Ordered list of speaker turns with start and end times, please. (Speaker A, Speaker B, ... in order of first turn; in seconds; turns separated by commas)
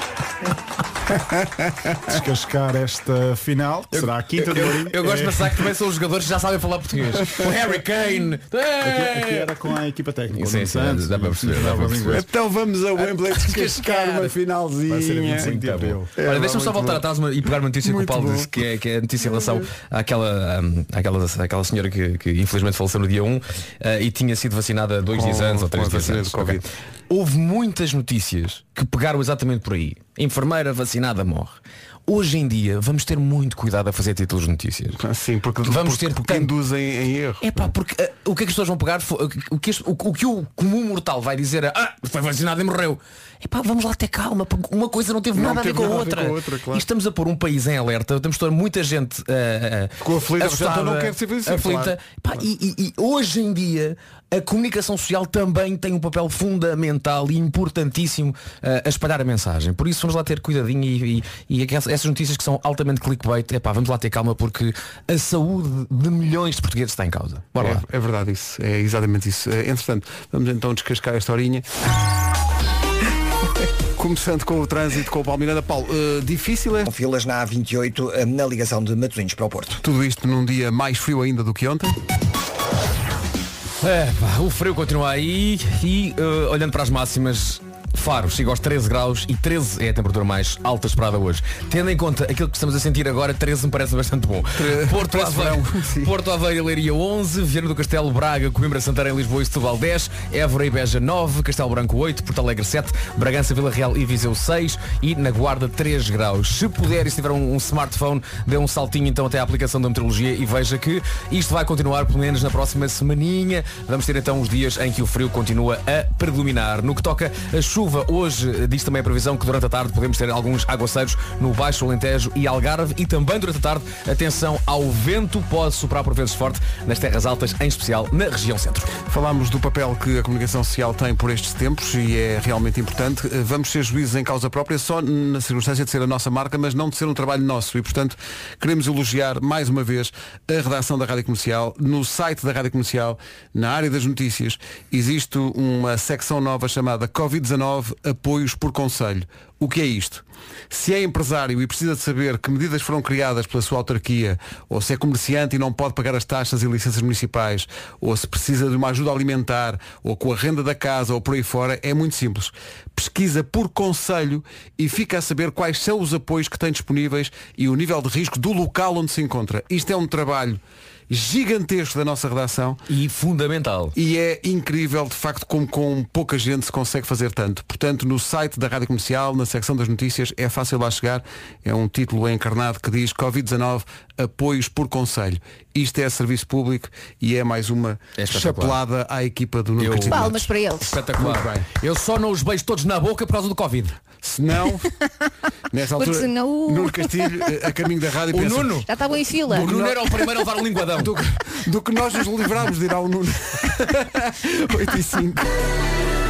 Speaker A: 2.0-5.7, Speaker B: 3.9-9.6, Speaker A: 8.8-12.2, Speaker B: 10.3-12.2, Speaker C: 12.1-15.5, Speaker A: 14.9-16.1, Speaker B: 15.4-35.0, Speaker C: 16.2-17.0, Speaker C: 17.8-18.5, Speaker C: 25.1-26.7, Speaker C: 35.0-37.7, Speaker B: 35.7-36.5, Speaker B: 37.4-67.8, Speaker C: 45.3-46.8, Speaker C: 50.0-52.4, Speaker C: 67.5-71.7, Speaker C: 74.0-76.9, Speaker D: 76.9-79.8, Speaker C: 79.8-82.0, Speaker B: 83.8-128.9, Speaker C: 94.6-96.1, Speaker C: 129.1-172.8, Speaker B: 172.9-173.9, Speaker C: 173.9-190.5, Speaker B: 188.2-188.8, Speaker B: 189.8-193.9, Speaker E: 190.1-191.0, Speaker C: 191.2-191.7, Speaker C: 194.2-194.9, Speaker C: 195.7-198.8, Speaker E: 196.0-197.6, Speaker B: 198.3-198.9, Speaker E: 198.9-199.9, Speaker B: 199.5-201.2, Speaker C: 199.5-200.1, Speaker C: 200.9-205.5